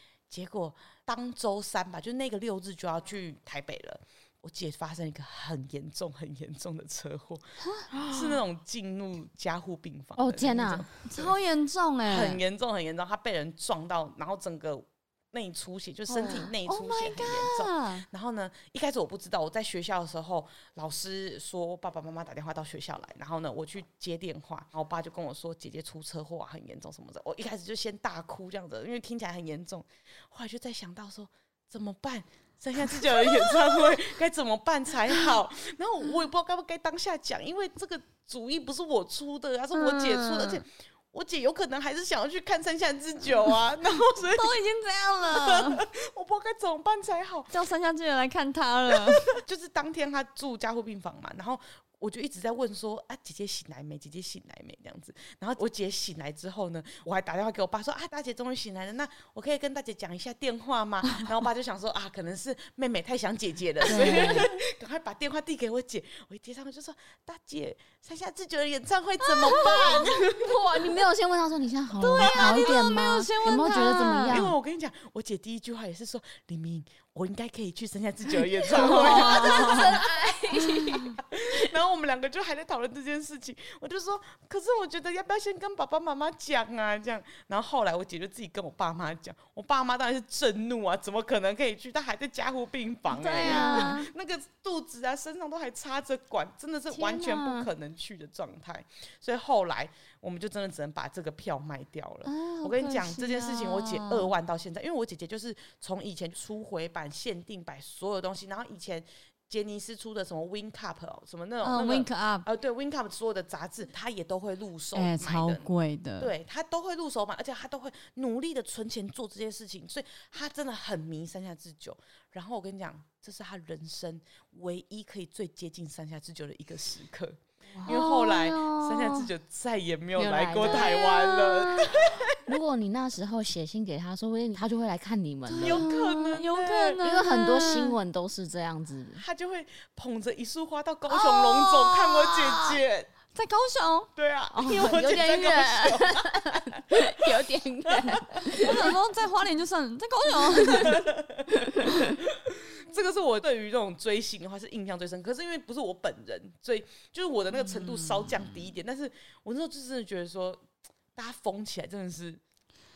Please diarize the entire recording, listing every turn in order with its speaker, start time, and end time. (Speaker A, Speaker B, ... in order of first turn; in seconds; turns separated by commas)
Speaker A: 0.3-11.3, Speaker B: 7.6-7.9, Speaker C: 7.9-8.4, Speaker C: 10.2-10.8, Speaker B: 11.1-12.4, Speaker A: 12.1-44.6, Speaker B: 16.1-18.0, Speaker B: 39.7-40.6, Speaker B: 44.3-45.9, Speaker A: 45.3-47.5, Speaker B: 47.5-49.4, Speaker A: 48.9-70.8, Speaker B: 63.9-64.5, Speaker C: 63.9-64.5, Speaker C: 69.4-74.5, Speaker B: 69.4-69.8, Speaker B: 72.0-74.5, Speaker A: 72.0-72.8, Speaker A: 74.3-80.2, Speaker C: 78.7-81.6, Speaker B: 78.7-79.9, Speaker B: 80.6-81.0, Speaker A: 80.8-115.7, Speaker C: 93.1-94.1, Speaker B: 93.3-94.0, Speaker C: 96.9-97.7, Speaker B: 102.2-104.3, Speaker B: 111.6-112.5, Speaker B: 114.9-116.3, Speaker A: 116.2-132.4, Speaker C: 127.7-128.0, Speaker B: 127.8-128.9, Speaker C: 129.0-129.2, Speaker C: 130.2-135.9, Speaker B: 135.5-137.9, Speaker A: 135.6-137.0, Speaker C: 137.0-139.2, Speaker A: 139.2-143.1, Speaker B: 141.1-142.8, Speaker B: 143.3-144.9, Speaker A: 144.2-148.5, Speaker C: 144.6-148.9, Speaker B: 148.5-151.0, Speaker A: 150.6-160.6, Speaker C: 151.5-152.1, Speaker B: 157.5-158.6, Speaker A: 161.1-162.4